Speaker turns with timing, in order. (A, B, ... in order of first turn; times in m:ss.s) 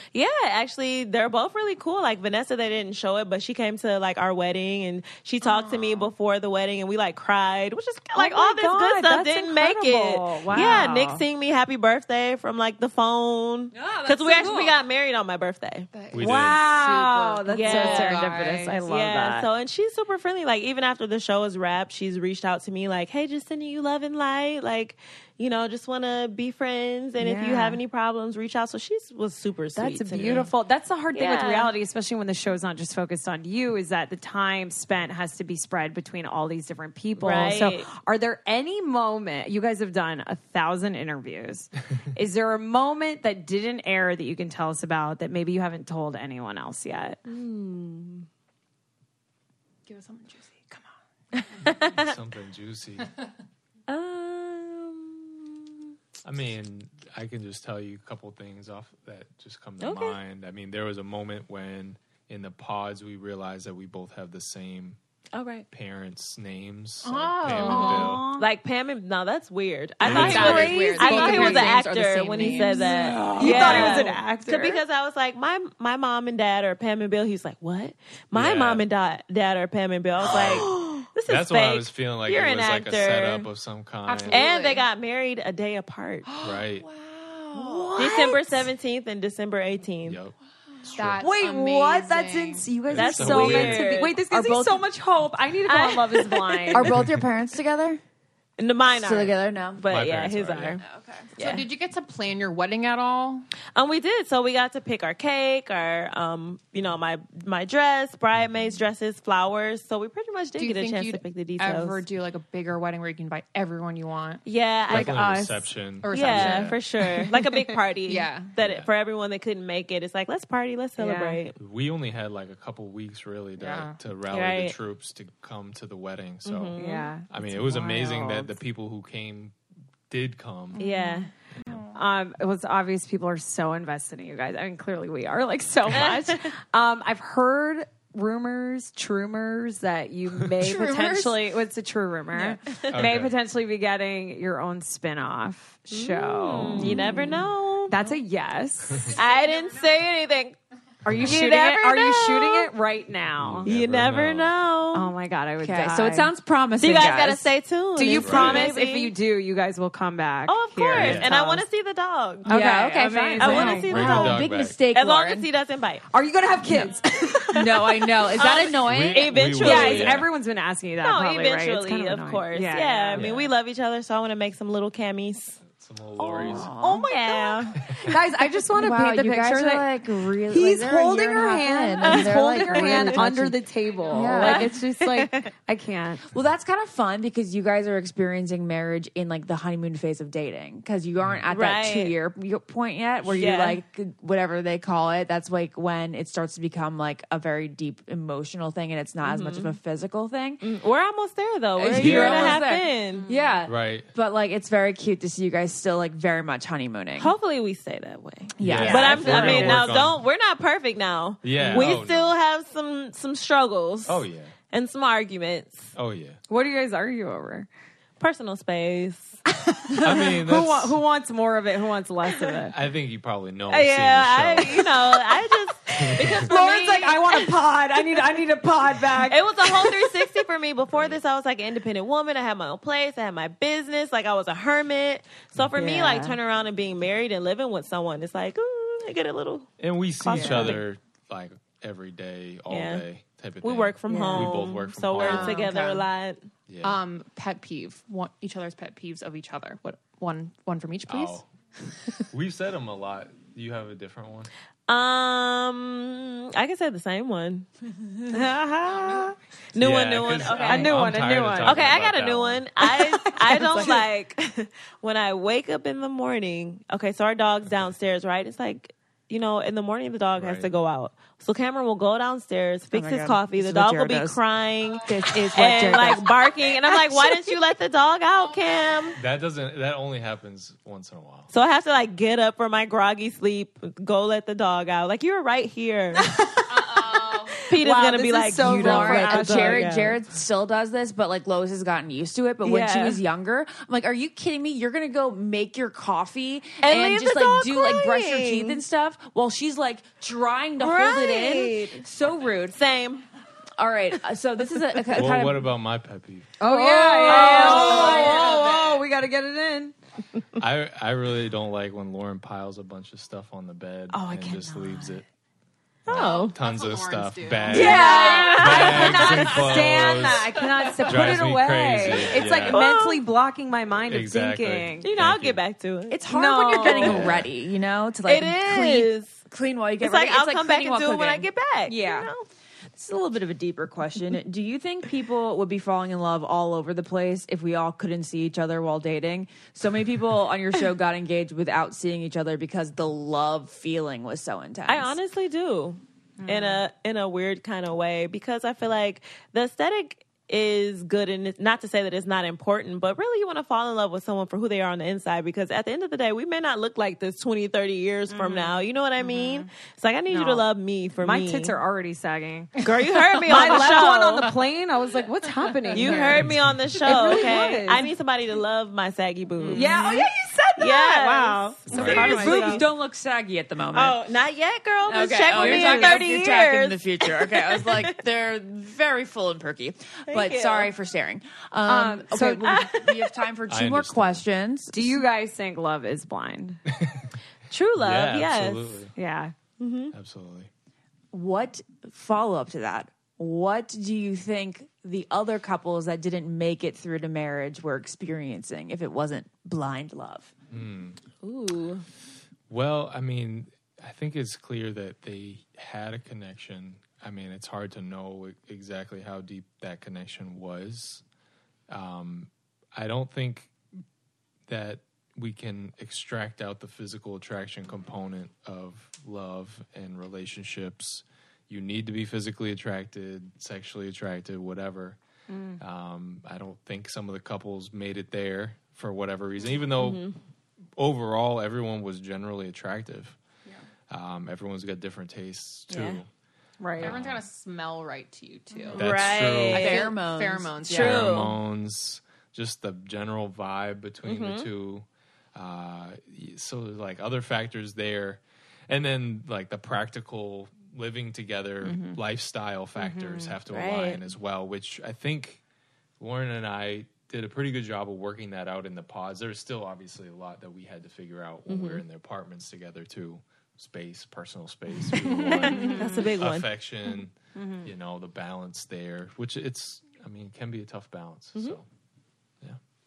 0:00.1-0:15.9 A
0:05.4-0:06.0 B
0:08.2-0:11.2 C
0:14.2-0:14.7 D
0:15.9-0:18.8 B
0:16.1-0:16.7 E
0:16.2-0:19.5 C
0:17.5-0:18.3 A
0:18.8-0:30.5 A
0:27.2-0:27.8 C
0:29.8-0:47.2 C
0:31.1-0:31.7 A
0:37.2-0:37.9 A
0:47.2-0:48.3 A
0:49.8-0:50.9 B
0:51.4-0:52.1 A
0:51.8-0:53.1 E
0:53.9-0:55.6 A
0:56.2-1:05.0 E
0:59.8-1:00.2 A
1:05.3-1:05.6 A
1:05.7-1:08.2 E
1:07.0-1:08.2 B
1:07.5-1:08.4 C
1:07.6-1:23.5 A
1:10.0-1:14.0 B
1:10.0-1:11.4 E
1:10.9-1:11.7 C
1:12.5-1:14.8 C
1:13.6-1:14.0 E
1:18.3-1:18.8 E
1:20.3-1:20.7 E
1:21.2-1:24.4 E
1:24.0-1:24.8 B
1:24.3-1:26.3 A
1:26.3-1:28.2 B
1:26.4-1:26.8 E
1:27.5-1:28.4 D
1:27.9-1:28.3 C
1:28.0-1:30.2 A
1:30.0-1:30.3 E
1:30.8-1:32.8 B
1:30.9-1:31.2 E
1:31.2-1:36.9 C
1:32.9-1:34.0 E
1:32.9-1:34.2 A
1:34.3-1:34.8 D
1:35.7-1:36.7 A
1:36.7-1:38.0 D
1:38.6-1:40.8 A
1:38.9-1:39.8 D
1:39.9-1:40.8 E
1:40.8-1:43.4 B
1:41.4-1:41.7 A
1:43.8-1:52.0 A
1:50.6-1:54.4 B
1:54.4-1:55.5 A
1:54.9-1:56.8 E
1:54.9-1:55.7 C
1:56.0-1:56.8 B
1:56.1-2:01.5 A
1:57.4-1:58.6 B
1:58.6-1:58.9 E
2:01.0-2:01.4 C
2:01.5-2:06.8 E
2:03.6-2:04.0 B
2:04.3-2:04.8 A
2:06.4-2:07.1 A
2:06.8-2:08.5 C
2:07.3-2:09.5 E
2:10.1-2:10.8 E
2:10.8-2:11.3 A
2:10.8-2:11.9 B
2:11.5-2:11.8 E
2:11.9-2:29.2 C
2:15.9-2:16.4 A
2:20.6-2:21.4 D
2:22.9-2:23.3 E
2:25.9-2:27.9 A
2:26.8-2:27.0 E
2:29.1-2:30.6 A
2:29.2-2:29.8 B
2:31.0-2:33.7 C
2:31.0-2:31.4 E
2:31.2-2:32.7 A
2:33.4-2:34.5 E
2:33.6-2:35.1 A
2:34.9-2:36.3 C
2:35.6-2:37.5 D
2:36.8-2:39.1 A
2:38.0-2:41.6 C
2:38.1-2:38.7 E
2:40.5-2:42.5 A
2:40.9-2:41.3 E
2:42.4-2:43.9 C
2:42.4-2:45.5 D
2:43.4-2:46.0 A
2:43.5-2:44.8 E
2:46.1-2:48.0 C
2:47.5-2:49.5 D
2:48.3-2:50.3 A
2:48.8-2:50.3 E
2:49.5-2:53.2 C
2:51.0-2:55.6 A
2:53.1-2:53.5 E
2:55.6-2:56.8 E
2:56.2-2:57.8 A
2:56.4-2:57.4 D
2:56.8-2:57.4 C
2:57.8-2:58.1 E
2:58.0-2:59.9 C
2:58.7-3:03.6 D
3:00.5-3:06.2 C
3:02.1-3:03.2 A
3:04.1-3:04.5 B
3:04.1-3:04.7 D
3:04.4-3:05.5 A
3:06.3-3:20.6 D
3:11.5-3:12.2 A
3:13.3-3:13.8 A
3:19.2-3:19.8 A
3:20.6-3:23.3 A
3:21.8-3:27.3 D
3:21.9-3:22.6 E
3:23.1-3:23.5 B
3:23.6-3:24.1 E
3:27.2-3:35.9 A
3:28.6-3:29.7 D
3:28.6-3:30.2 E
3:28.8-3:29.9 C
3:31.4-3:32.3 E
3:31.6-3:31.9 D
3:34.0-3:34.5 E
3:35.9-3:36.4 E
3:36.5-3:37.7 C
3:38.2-3:39.4 A
3:39.7-3:42.7 C
3:40.0-3:41.0 E
3:42.7-3:45.0 E
3:43.7-3:47.6 A
3:46.0-3:46.4 E
3:46.1-3:50.1 C
3:49.3-3:59.7 A
3:50.8-3:51.2 E
3:55.8-3:56.3 C
3:59.8-4:05.6 E
4:00.2-4:00.8 C
4:00.3-4:00.8 A
4:02.7-4:03.0 A
4:03.6-4:06.4 A
4:04.1-4:04.6 C
4:05.2-4:06.0 B
4:06.7-4:07.0 E
4:06.8-4:11.4 B
4:11.1-4:11.5 E
4:12.3-4:14.5 E
4:14.9-4:17.7 A
4:18.3-4:19.3 C
4:19.7-4:21.0 A
4:19.8-4:22.7 E
4:20.5-4:20.8 D
4:20.6-4:21.8 C
4:21.6-4:39.2 A
4:22.8-4:24.0 C
4:30.3-4:30.7 E
4:32.9-4:34.4 D
4:35.0-4:36.4 D
4:37.0-4:37.5 D
4:39.2-4:41.5 E
4:41.5-4:46.4 A
4:46.7-4:47.6 B
4:47.0-4:50.2 A
4:47.7-4:49.9 C
4:48.6-5:02.8 D
4:52.6-4:53.2 A
4:56.8-4:58.8 A
5:00.8-5:02.0 A
5:02.7-5:03.2 A
5:03.8-5:05.7 D
5:05.1-5:06.5 E
5:06.6-5:09.9 C
5:06.7-5:08.5 D
5:06.7-5:08.6 A
5:07.6-5:09.0 B
5:10.6-5:15.2 E
5:14.1-5:15.2 C
5:16.0-5:16.5 A
5:16.1-5:20.5 E
5:16.1-5:21.4 B
5:17.7-5:19.6 A
5:17.7-5:25.1 C
5:21.0-5:22.8 E
5:22.6-5:23.2 A
5:24.0-5:25.6 E
5:25.0-5:27.2 A
5:26.1-5:32.3 D
5:26.3-5:27.2 C
5:27.0-5:27.5 E
5:28.2-5:29.4 A
5:30.0-5:32.5 A
5:33.0-5:45.2 D
5:44.9-6:01.8 A
5:46.4-5:46.8 C
5:58.3-5:58.8 C
6:00.3-6:00.6 C
6:01.2-6:02.8 C
6:02.8-6:04.5 A
6:03.4-6:04.6 B
6:03.5-6:08.0 C
6:05.8-6:06.4 B
6:05.9-6:12.8 A
6:06.4-6:06.7 E
6:09.6-6:09.9 B
6:09.7-6:12.8 C
6:11.9-6:12.4 E
6:12.0-6:14.2 D
6:13.9-6:18.2 A
6:15.0-6:25.2 D
6:15.5-6:16.2 C
6:20.3-6:20.9 A
6:21.8-6:22.7 C
6:22.7-6:23.3 A
6:23.7-6:24.4 E
6:24.9-6:26.8 C
6:26.9-6:27.3 E
6:27.7-6:29.0 A
6:28.0-6:29.1 E
6:29.2-6:29.5 C
6:29.8-6:30.1 A
6:30.1-6:30.7 E
6:31.3-6:40.5 D
6:40.7-6:41.2 E
6:41.4-6:42.0 A
6:42.7-6:51.2 E
6:51.9-6:53.7 E
6:54.7-7:05.2 E
7:05.5-7:05.8 C
7:05.8-7:10.2 E
7:10.0-7:10.4 A
7:11.0-7:13.4 E
7:14.1-7:16.3 E
7:15.9-7:16.2 A
7:16.8-7:17.1 C
7:17.0-7:19.2 B
7:17.0-7:17.4 E
7:18.9-7:20.1 A
7:19.0-7:19.9 E
7:19.7-7:21.2 D
7:19.7-7:21.2 B
7:20.9-7:21.6 A
7:20.9-7:35.6 E
7:24.2-7:24.7 A
7:33.0-7:33.5 C
7:33.7-7:34.2 A
7:36.2-7:51.8 E
7:41.7-7:42.0 A
7:45.1-7:46.7 A
7:45.6-7:46.0 B
7:45.7-7:46.2 C
7:47.6-7:47.9 C